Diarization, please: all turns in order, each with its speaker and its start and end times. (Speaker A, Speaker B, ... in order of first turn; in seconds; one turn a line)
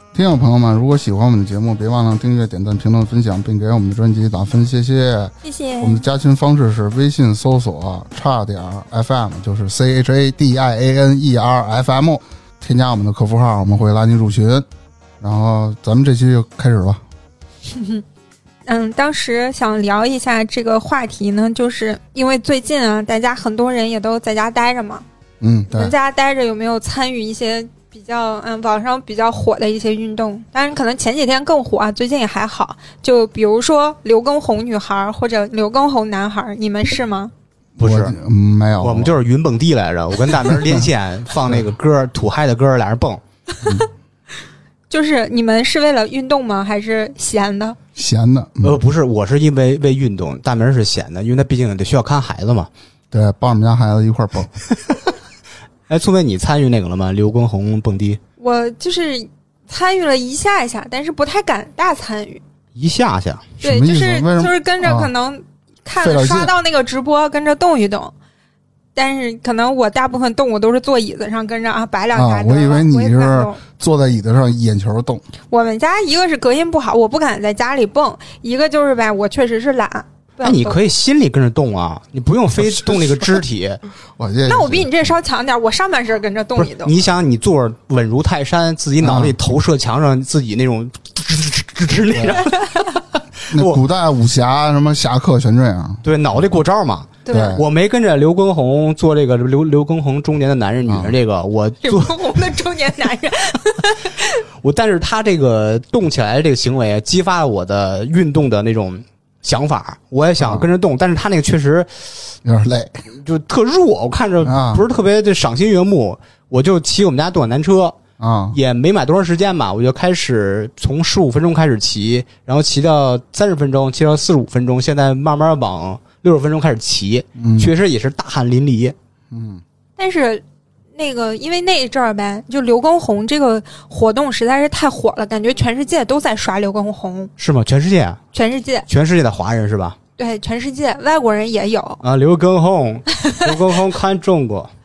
Speaker A: 0.1-14.7
Speaker B: 5.4-6.1
Speaker A: 15.2-17.0
Speaker B: 17.7-18.0
Speaker B: 18.6-25.0
Speaker A: 25.4-25.9
Speaker B: 25.7-37.3
Speaker A: 37.8-39.1
Speaker C: 37.8-38.1
Speaker C: 38.8-43.2
Speaker B: 44.9-47.8
Speaker A: 48.0-48.8
Speaker C: 48.6-52.7
Speaker A: 53.1-54.5
Speaker C: 55.9-58.2
Speaker B: 58.4-62.4
Speaker C: 62.8-63.5
Speaker A: 63.6-65.1
Speaker B: 63.6-68.1
Speaker A: 66.0-66.5
Speaker B: 68.9-73.6
Speaker A: 72.1-75.2
Speaker B: 75.5-80.8
Speaker C: 80.4-83.8
Speaker A: 82.6-83.4
Speaker A: 84.2-85.1
Speaker B: 84.5-86.9
Speaker C: 86.6-93.8
Speaker A: 89.0-89.4
Speaker A: 92.1-92.4
Speaker A: 93.5-96.0
Speaker C: 96.0-102.2
Speaker B: 97.2-97.6
Speaker A: 97.3-97.6
Speaker A: 100.8-101.1
Speaker B: 101.8-104.4
Speaker C: 104.6-111.9
Speaker A: 110.4-110.7
Speaker A: 112.4-113.0
Speaker C: 113.2-118.0
Speaker A: 114.4-114.8
Speaker A: 118.2-118.6
Speaker C: 118.5-128.9
Speaker A: 127.4-127.7
Speaker A: 129.3-129.6
Speaker B: 130.0-130.4
Speaker B: 130.9-137.3
Speaker C: 137.4-138.2
Speaker B: 138.3-138.8
Speaker C: 138.9-140.0
Speaker B: 140.2-142.0
Speaker C: 142.0-144.7